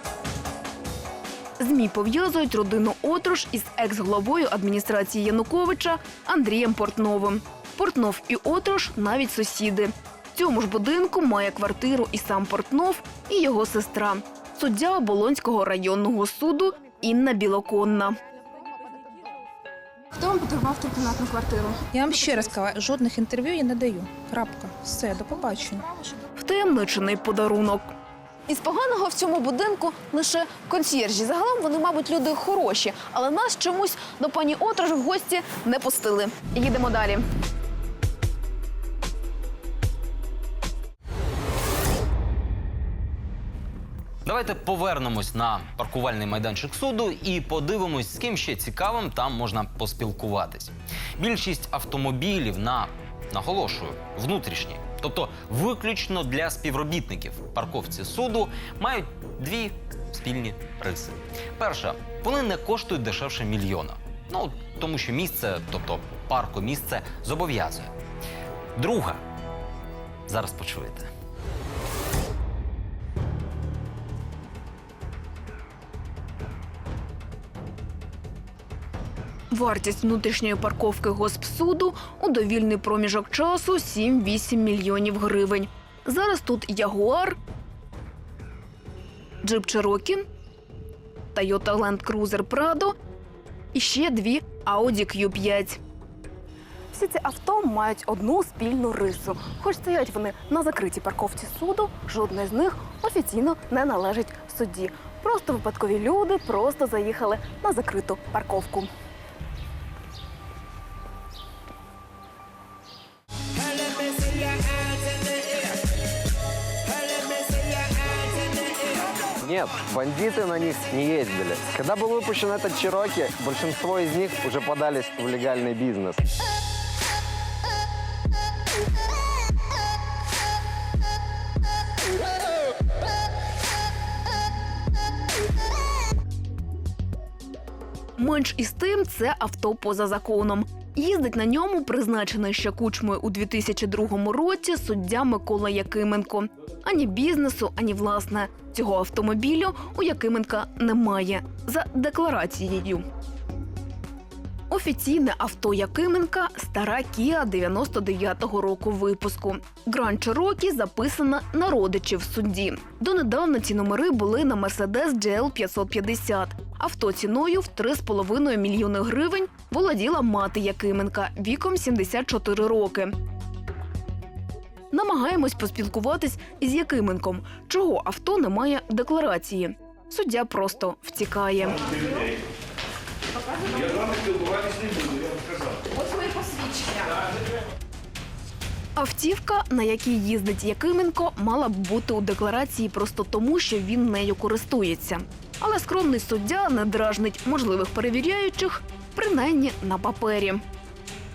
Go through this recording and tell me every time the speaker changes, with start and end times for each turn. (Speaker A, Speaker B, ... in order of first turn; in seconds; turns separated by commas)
Speaker A: 1.6-18.2, Speaker B: 20.1-22.6, Speaker C: 21.9-25.8, Speaker B: 25.8-26.3, Speaker A: 26.4-27.9, Speaker A: 28.5-37.3, Speaker D: 44.2-67.9, Speaker D: 68.8-69.2, Speaker D: 70.3-71.1, Speaker A: 79.5-87.4, Speaker A: 89.4-90.2, Speaker A: 91.3-92.9, Speaker A: 93.7-95.8, Speaker A: 96.9-108.9, Speaker E: 119.4-126.2, Speaker A: 138.2-153.0, Speaker A: 154.7-173.1, Speaker A: 174.9-181.9, Speaker B: 183.5-184.4, Speaker B: 185.8-187.2, Speaker A: 188.9-200.6